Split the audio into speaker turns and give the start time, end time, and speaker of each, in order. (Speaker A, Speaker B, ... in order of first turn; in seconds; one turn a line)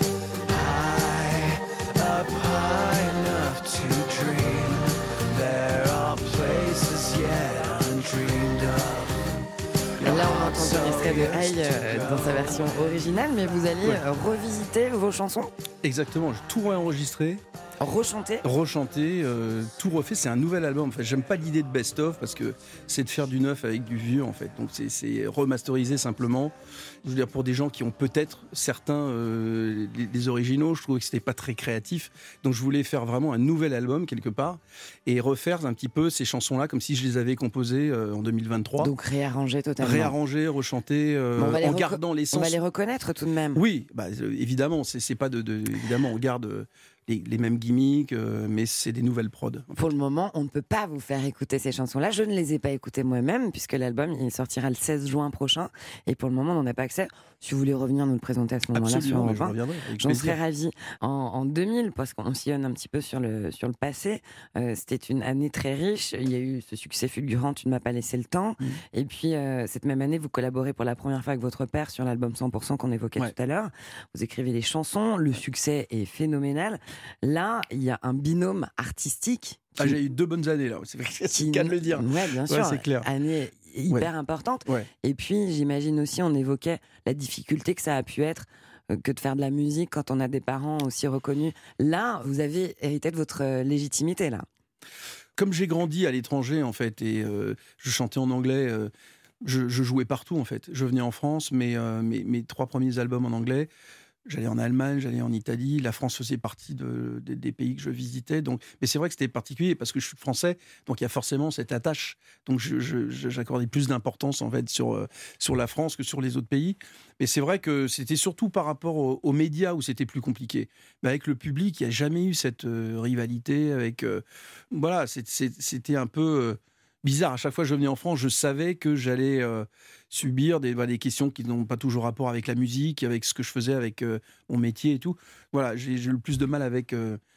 Speaker A: 0.5-9.2
Speaker A: 10.0-12.8
Speaker B: 10.0-15.5
Speaker C: 15.8-17.4
Speaker B: 17.8-18.4
Speaker C: 18.4-38.9
Speaker B: 38.8-40.1
Speaker C: 39.8-42.6
Speaker B: 41.4-43.6
Speaker C: 43.5-49.9
Speaker B: 49.8-80.0
Speaker C: 58.7-60.4
Speaker C: 79.8-83.1
Speaker B: 81.3-94.5
Speaker C: 95.3-98.9
Speaker C: 99.4-103.7
Speaker C: 104.2-137.2